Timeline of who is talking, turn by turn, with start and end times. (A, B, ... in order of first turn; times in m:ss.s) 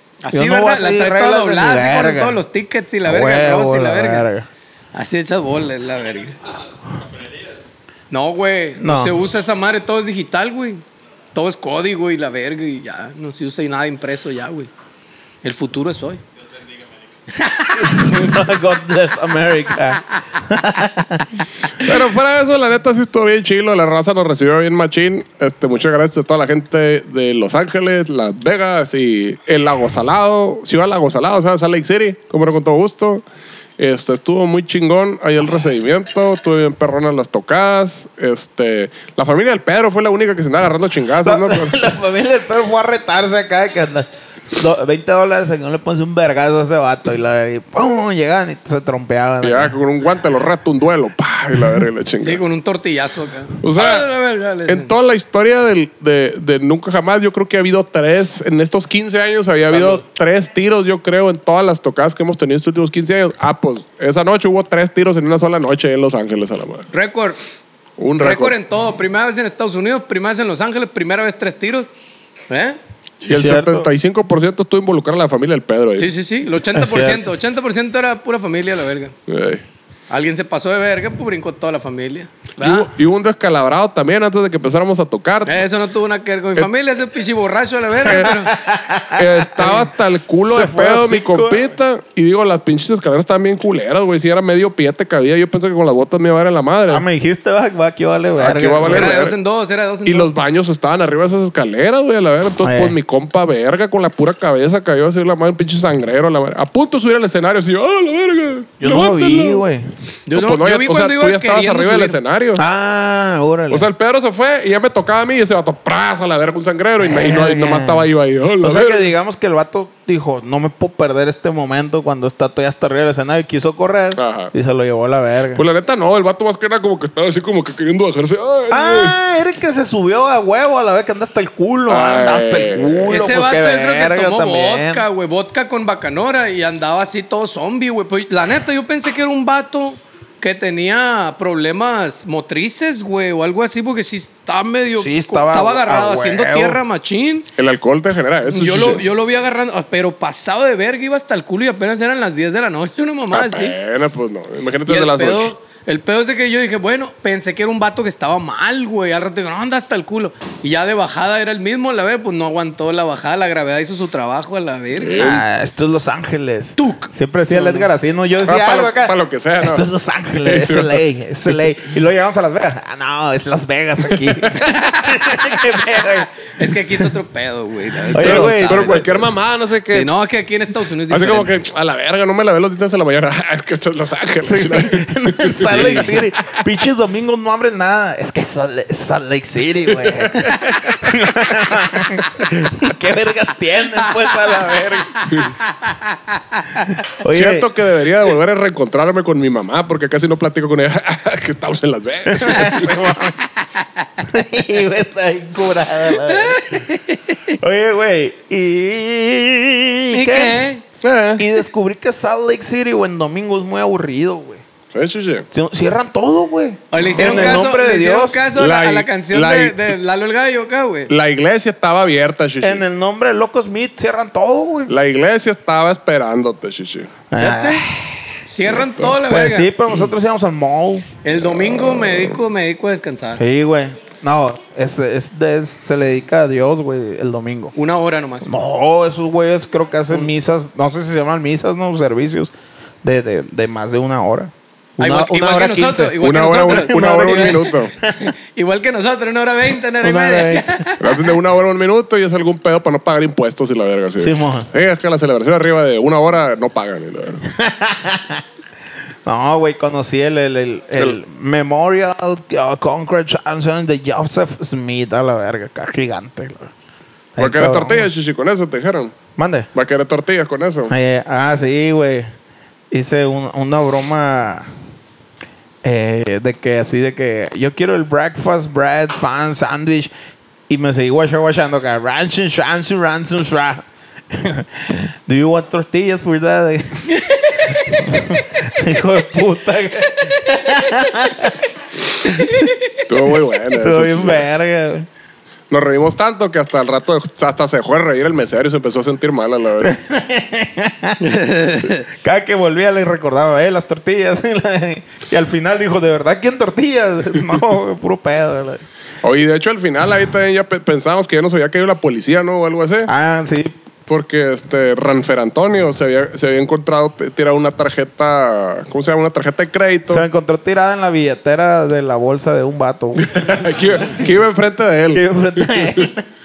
0:00.2-0:04.3 A
0:00.3-0:02.4 B
0:03.0-0:04.5 B
0:04.9-0:06.4 A
0:08.1-0:14.7 A
0:08.8-0:09.2 B
0:15.4-0:16.2 A
0:17.3-0:18.2 A
0:17.9-0:21.3 B
0:21.8-0:33.2 C
0:33.8-0:41.8 C
0:41.2-0:49.8 B
0:49.4-0:52.4 C
0:52.2-0:54.9 A
0:53.6-0:54.1 C
0:54.7-1:06.9 C
0:59.7-1:00.0 B
1:06.9-1:07.4 A
1:08.0-1:08.6 C
1:08.2-1:11.9 A
1:12.5-1:12.8 A
1:13.2-1:13.9 B
1:13.2-1:16.1 C
1:16.0-1:19.1 A
1:16.7-1:17.2 B
1:19.3-1:19.6 C
1:20.1-1:22.9 A
1:22.6-1:25.6 C
1:25.5-1:28.5 A
1:28.0-1:28.3 C
1:28.1-1:31.7 B
1:29.1-1:37.0 C
1:36.9-1:39.2 B
1:38.4-1:39.4 C
1:38.9-1:40.3 A
1:40.1-1:49.6 C
1:42.6-1:43.0 B
1:48.8-1:49.9 B
1:50.3-1:52.2 A
1:50.3-1:52.6 C
1:52.6-1:53.9 B
1:53.7-1:59.1 C
1:57.0-1:58.1 B
1:58.6-2:05.6 B
2:04.2-2:04.5 C
2:05.6-2:09.2 C
2:08.7-2:15.0 B
2:11.9-2:13.2 C
2:13.1-2:27.5 A
2:25.0-2:26.8 B
2:27.6-2:29.0 C
2:28.5-2:33.8 A
2:33.3-2:35.5 C
2:34.9-2:45.3 A
2:45.1-2:45.4 C
2:45.1-2:56.5 B
2:46.8-2:47.9 A
2:48.4-2:49.9 C
2:50.4-2:51.6 C
2:54.1-2:54.6 C
2:54.7-2:59.1 A
2:58.1-2:59.2 B
2:58.2-3:00.1 C
2:59.9-3:01.5 A
3:01.1-3:06.3 C
3:04.4-3:15.3 B
3:05.7-3:06.0 A
3:10.0-3:11.0 C
3:10.4-3:10.8 A
3:15.3-3:16.9 A
3:17.2-3:17.7 B
3:17.3-3:23.0 C
3:22.3-3:23.4 B
3:24.2-3:26.9 B
3:26.2-3:27.6 A
3:27.5-3:30.7 B
3:30.1-3:30.8 A
3:31.0-3:31.5 C
3:31.4-3:34.6 B
3:34.9-3:35.5 C
3:35.5-3:38.4 B
3:36.9-3:41.1 A
3:37.0-3:37.6 C
3:38.6-3:39.9 C
3:41.1-3:42.8 C
3:42.6-3:44.9 B
3:44.9-3:47.1 C
3:47.3-3:48.2 B
3:47.4-3:47.8 A
3:48.5-3:49.7 A
3:48.7-3:49.2 C
3:49.3-3:51.1 B
3:51.2-3:53.4 A
3:51.4-3:52.4 C
3:53.4-3:57.7 B
3:57.8-3:58.5 A
3:58.4-4:02.5 B
4:03.0-4:06.2 B
4:05.0-4:11.3 A
4:06.2-4:07.9 C
4:06.8-4:08.1 B
4:10.0-4:10.8 B
4:11.0-4:17.4 C
4:14.2-4:14.7 B
4:17.5-4:18.4 B
4:19.3-4:26.7 B
4:27.4-4:28.1 B
4:27.4-4:29.1 C
4:29.4-4:29.7 B
4:29.8-4:30.9 C
4:30.9-4:32.3 B
4:32.9-4:34.7 B
4:35.8-4:40.1 B
4:40.7-4:51.6 B
4:47.2-4:48.4 A
4:50.6-4:51.1 A
4:52.2-4:53.0 A
4:53.1-4:54.5 C
4:53.7-4:55.1 B
4:55.7-4:59.9 C
4:59.8-5:01.2 B
5:01.2-5:02.0 A
5:02.1-5:08.8 B
5:09.2-5:13.1 C
5:13.1-5:13.8 B
5:14.1-5:20.2 C
5:20.1-5:23.4 B
5:23.2-5:26.1 C
5:25.1-5:26.3 B